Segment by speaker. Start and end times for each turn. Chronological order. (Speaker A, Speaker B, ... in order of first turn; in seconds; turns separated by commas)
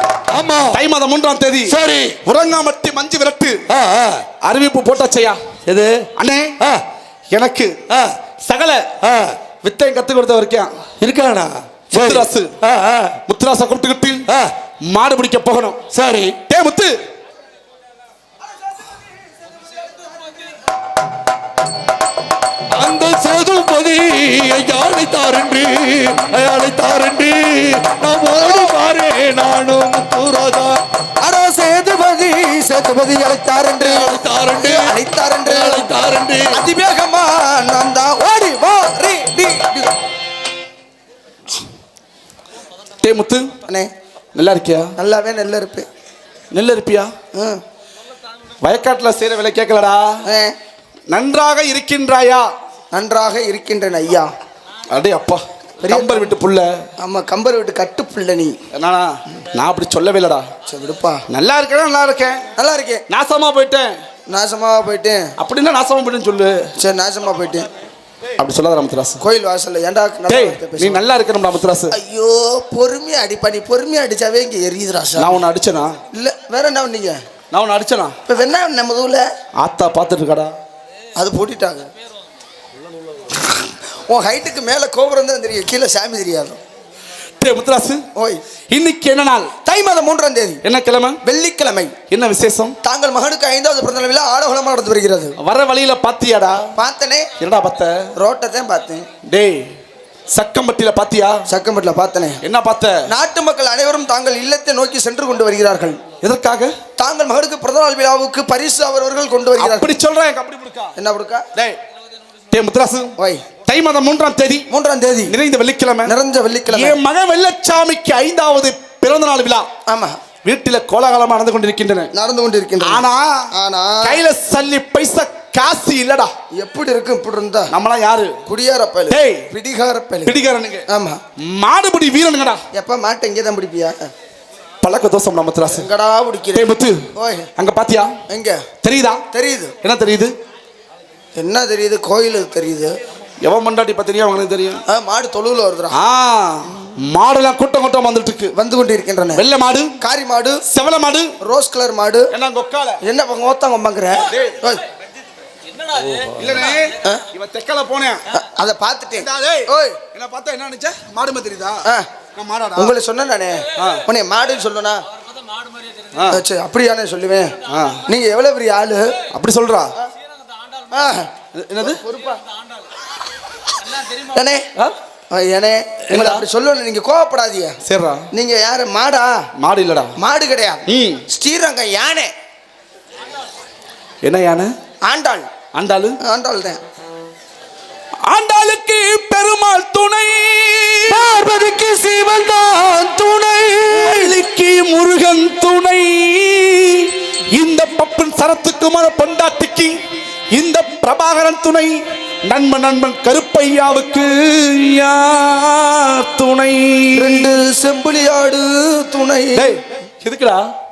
Speaker A: 0.3-0.8, Speaker B: 0.7-3.6, Speaker A: 1.7-2.2, Speaker A: 3.7-4.3, Speaker B: 4.4-5.4, Speaker A: 5.7-6.1, Speaker B: 6.2-6.6, Speaker B: 7.3-7.8, Speaker A: 7.9-8.2, Speaker B: 8.4-8.9, Speaker A: 9.0-9.4, Speaker B: 9.6-10.7, Speaker A: 11.0-13.2, Speaker B: 11.9-12.5, Speaker B: 13.3-14.3, Speaker A: 14.3-14.5, Speaker B: 14.9-15.8, Speaker A: 15.9-16.4, Speaker B: 16.5-16.9, Speaker A: 22.7-30.8, Speaker C: 28.4-28.7, Speaker C: 31.2-35.9, Speaker A: 33.7-36.6, Speaker C: 36.5-39.9, Speaker B: 43.0-43.5, Speaker B: 44.4-45.0, Speaker C: 45.0-45.9, Speaker B: 46.5-47.1, Speaker C: 47.4-47.6, Speaker B: 48.6-50.2, Speaker C: 50.3-50.5, Speaker B: 51.1-52.5, Speaker C: 52.9-54.3, Speaker B: 54.9-56.8, Speaker C: 55.8-56.3, Speaker C: 57.0-58.5, Speaker B: 58.7-60.5, Speaker C: 60.7-61.2, Speaker B: 61.3-62.4, Speaker C: 62.6-63.0, Speaker B: 63.1-64.0, Speaker C: 64.3-65.3, Speaker B: 65.4-66.7, Speaker C: 66.8-67.7, Speaker B: 68.4-69.2, Speaker C: 69.2-71.0, Speaker B: 70.3-72.0, Speaker C: 71.9-75.4, Speaker B: 75.2-76.0, Speaker C: 76.1-77.2, Speaker B: 77.5-78.2, Speaker C: 78.3-79.2, Speaker B: 79.6-80.5, Speaker C: 81.2-81.9, Speaker C: 83.9-86.6, Speaker B: 87.4-88.0, Speaker C: 88.2-88.4, Speaker B: 88.7-89.5, Speaker C: 89.6-90.6, Speaker B: 90.6-91.2, Speaker C: 91.2-92.0, Speaker B: 92.1-92.8, Speaker C: 92.8-95.4, Speaker B: 95.4-96.7, Speaker C: 96.8-97.3, Speaker B: 97.4-98.1, Speaker C: 98.2-99.1, Speaker B: 99.2-99.7, Speaker B: 100.3-101.4, Speaker C: 101.5-102.4, Speaker B: 102.4-103.0, Speaker C: 103.1-106.0, Speaker B: 106.2-106.8, Speaker C: 107.0-109.9, Speaker B: 109.6-110.9, Speaker C: 111.0-111.5, Speaker B: 112.5-113.2, Speaker C: 113.2-113.4, Speaker B: 113.7-114.7, Speaker C: 114.7-115.3, Speaker B: 115.3-116.1, Speaker C: 116.0-117.0, Speaker B: 116.7-119.7, Speaker C: 119.9-120.2, Speaker B: 120.5-122.1, Speaker C: 122.1-124.2, Speaker B: 122.8-123.5, Speaker B: 124.0-126.3, Speaker C: 126.5-127.7, Speaker B: 127.7-128.4, Speaker C: 128.5-130.4, Speaker B: 129.1-129.5, Speaker B: 130.2-130.8, Speaker C: 130.9-131.2, Speaker B: 131.4-132.6, Speaker C: 132.7-134.1, Speaker B: 134.8-135.9, Speaker C: 135.7-137.5, Speaker B: 136.5-138.2, Speaker C: 138.3-138.7, Speaker B: 138.8-139.2, Speaker C: 139.3-139.8, Speaker B: 139.8-140.3, Speaker C: 141.4-142.9, Speaker B: 143.4-144.8, Speaker C: 144.9-146.0, Speaker B: 145.9-148.5, Speaker C: 148.6-149.4, Speaker B: 149.3-150.0, Speaker C: 150.0-150.6, Speaker B: 150.7-151.3, Speaker C: 151.4-152.3, Speaker B: 152.3-153.0, Speaker C: 153.0-154.8, Speaker B: 154.3-154.6, Speaker A: 156.0-156.4, Speaker B: 156.3-158.2, Speaker C: 158.3-160.0, Speaker B: 159.2-161.8, Speaker B: 162.4-162.9, Speaker C: 162.8-165.0, Speaker B: 163.8-164.1, Speaker B: 166.1-166.4, Speaker C: 166.3-167.6, Speaker B: 167.7-168.1, Speaker C: 168.1-169.2, Speaker B: 169.3-169.9, Speaker C: 170.9-171.3, Speaker B: 171.5-172.0, Speaker C: 171.8-172.4, Speaker C: 174.0-174.7, Speaker C: 175.3-177.8, Speaker B: 176.1-176.5, Speaker B: 177.8-178.3, Speaker C: 178.3-179.3, Speaker B: 179.6-180.2, Speaker C: 180.2-182.3, Speaker B: 180.9-181.2, Speaker B: 184.2-184.7, Speaker C: 185.1-185.5, Speaker B: 185.8-186.2, Speaker C: 186.2-186.8, Speaker B: 188.2-191.3, Speaker A: 191.1-194.3, Speaker B: 193.9-207.5, Speaker C: 207.1-209.8, Speaker B: 209.6-210.6